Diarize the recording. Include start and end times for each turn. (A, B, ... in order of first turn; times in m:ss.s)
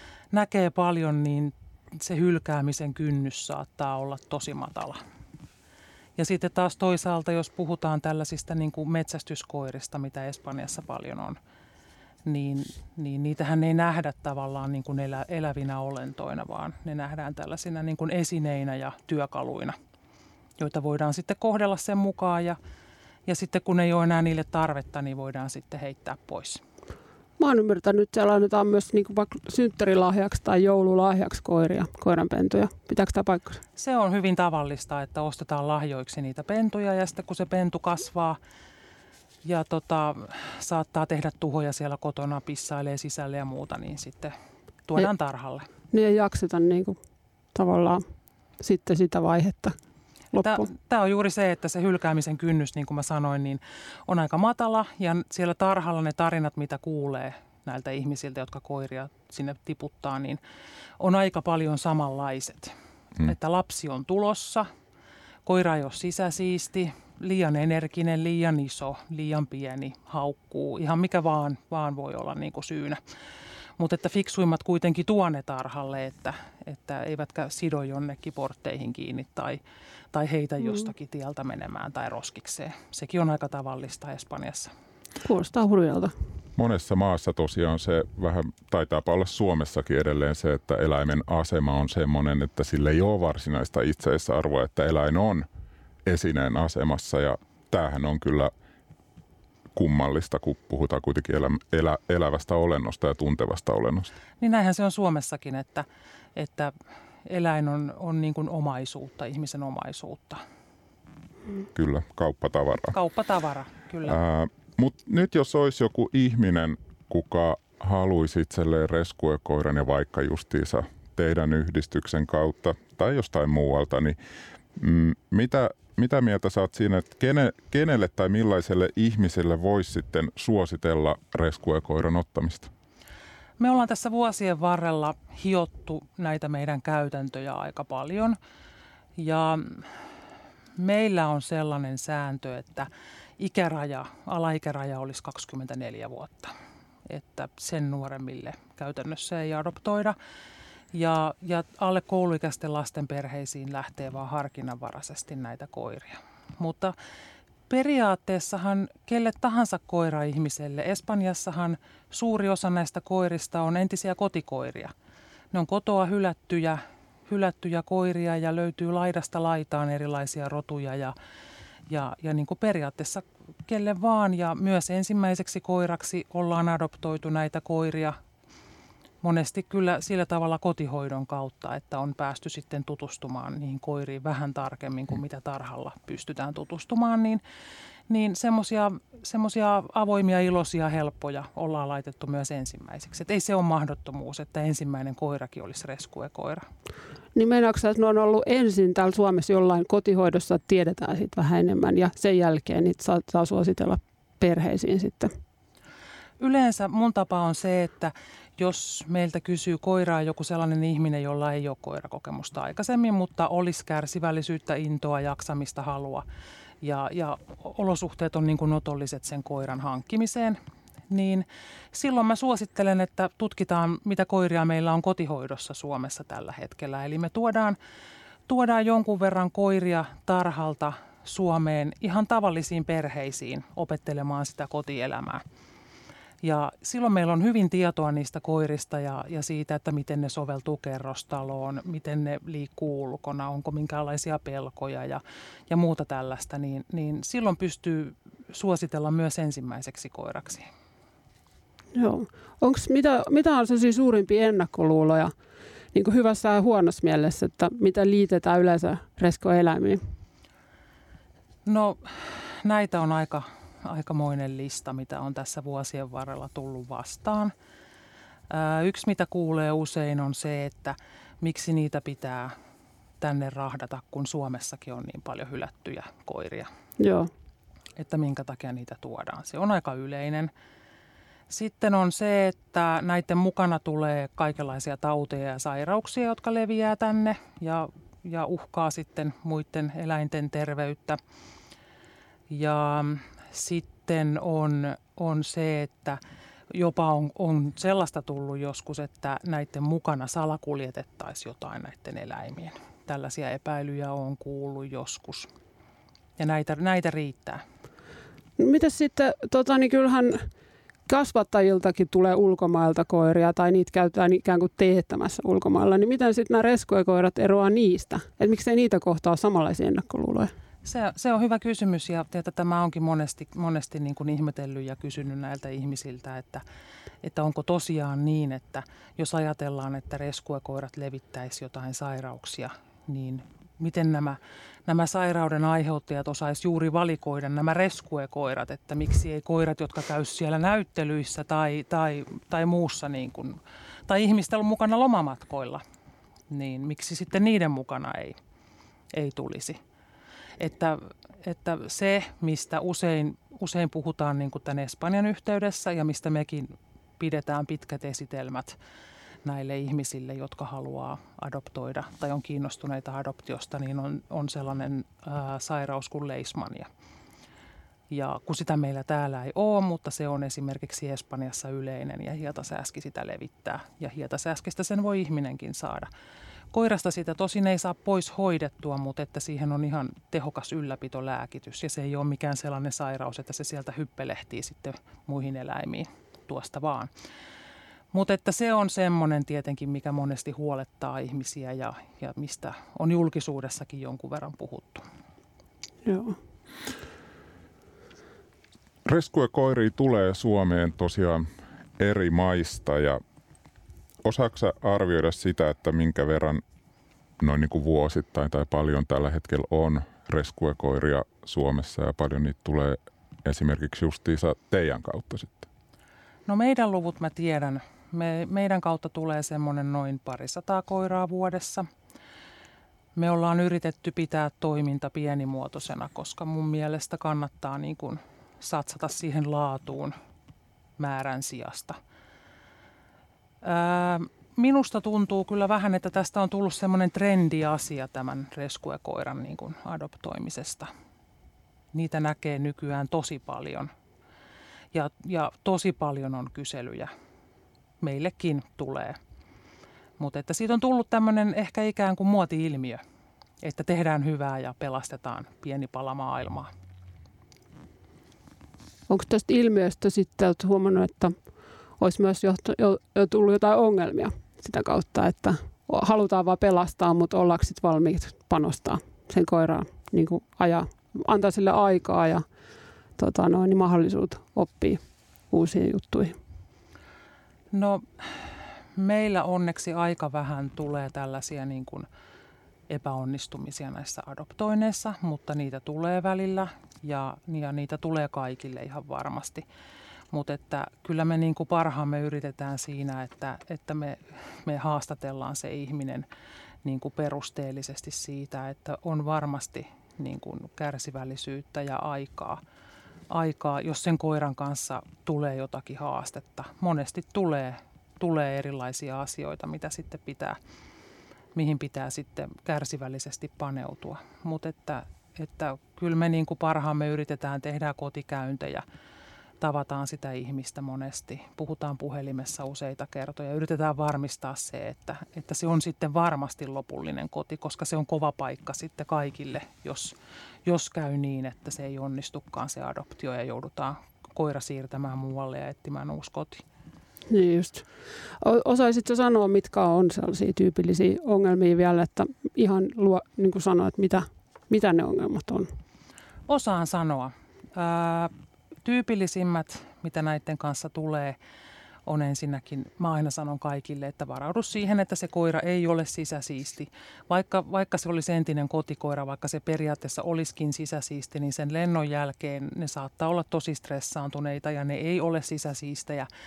0:00.3-0:05.0 A
0:06.2-0:11.4 A
0:12.2-0:19.8 A
0:20.6-0:22.6 A
0:23.3-0:26.6 A
0:27.4-0:33.6 B
0:33.8-0:38.4 A
0:39.4-0:44.3 A
0:44.9-0:45.7 A
0:45.9-0:47.0 B
0:47.5-0:48.0 B
0:48.6-0:49.8 B
0:50.3-0:50.7 B
0:50.4-1:00.4 A
1:01.0-1:04.7 A
1:05.5-1:13.0 A
1:13.8-1:19.6 A
1:20.1-1:24.7 A
1:25.2-1:26.1 B
1:26.6-1:35.5 C
1:36.1-1:38.5 C
1:39.7-1:44.1 C
1:44.4-1:46.7 A
1:47.2-1:50.4 A
1:51.7-1:53.0 C
1:52.9-1:54.2 A
1:54.0-2:04.2 C
2:04.8-2:12.7 C
2:13.6-2:18.4 A
2:19.2-2:19.9 A
2:20.8-2:26.5 A
2:27.1-2:30.2 A
2:30.9-2:37.0 A
2:37.7-2:44.9 A
2:45.5-2:51.2 A
2:51.9-2:58.2 A
2:59.2-3:07.4 A
3:08.1-3:16.7 A
3:17.4-3:25.3 B
3:26.4-3:36.2 A
3:36.8-3:40.6 A
3:41.1-3:47.8 A
3:48.5-3:55.4 A
3:56.4-4:10.7 A
4:11.9-4:15.3 B
4:15.9-4:20.0 B
4:21.7-4:27.5 A
4:28.5-4:32.6 A
4:33.2-4:36.7 A
4:37.0-4:37.3 B
4:38.0-4:40.5 A
4:41.5-4:51.2 A
4:52.5-5:05.5 A
5:06.4-5:07.6 A
5:08.6-5:10.5 B
5:11.1-5:20.5 B
5:20.8-5:26.6 A
5:27.2-5:45.8 A
5:46.5-5:48.4 A
5:49.1-5:49.8 A
5:50.6-5:58.8 A
5:59.4-6:06.9 A
6:08.1-6:16.1 A
6:16.7-6:27.1 A
6:28.1-6:35.1 A
6:36.0-6:36.4 B
6:39.0-6:41.5 C
6:42.0-6:43.2 C
6:44.2-6:46.6 C
6:47.4-6:55.7 C
6:56.5-7:01.9 A
7:03.2-7:10.2 A
7:11.0-7:12.0 A
7:13.6-7:20.9 A
7:21.9-7:23.9 A
7:24.9-7:27.1 A
7:28.0-7:29.2 A
7:30.2-7:33.0 A
7:33.6-7:36.7 A
7:39.1-7:41.4 B
7:42.0-7:52.4 B
7:53.2-7:56.4 B
7:57.7-8:02.1 A
8:02.9-8:09.6 A
8:10.3-8:16.3 A
8:16.8-8:22.6 A
8:23.3-8:30.6 A
8:31.5-8:38.8 A
8:39.6-8:50.2 A
8:50.7-8:56.6 A
8:57.3-8:57.8 B
8:58.4-9:05.7 B
9:06.5-9:08.3 A
9:08.8-9:11.4 A
9:12.0-9:26.3 A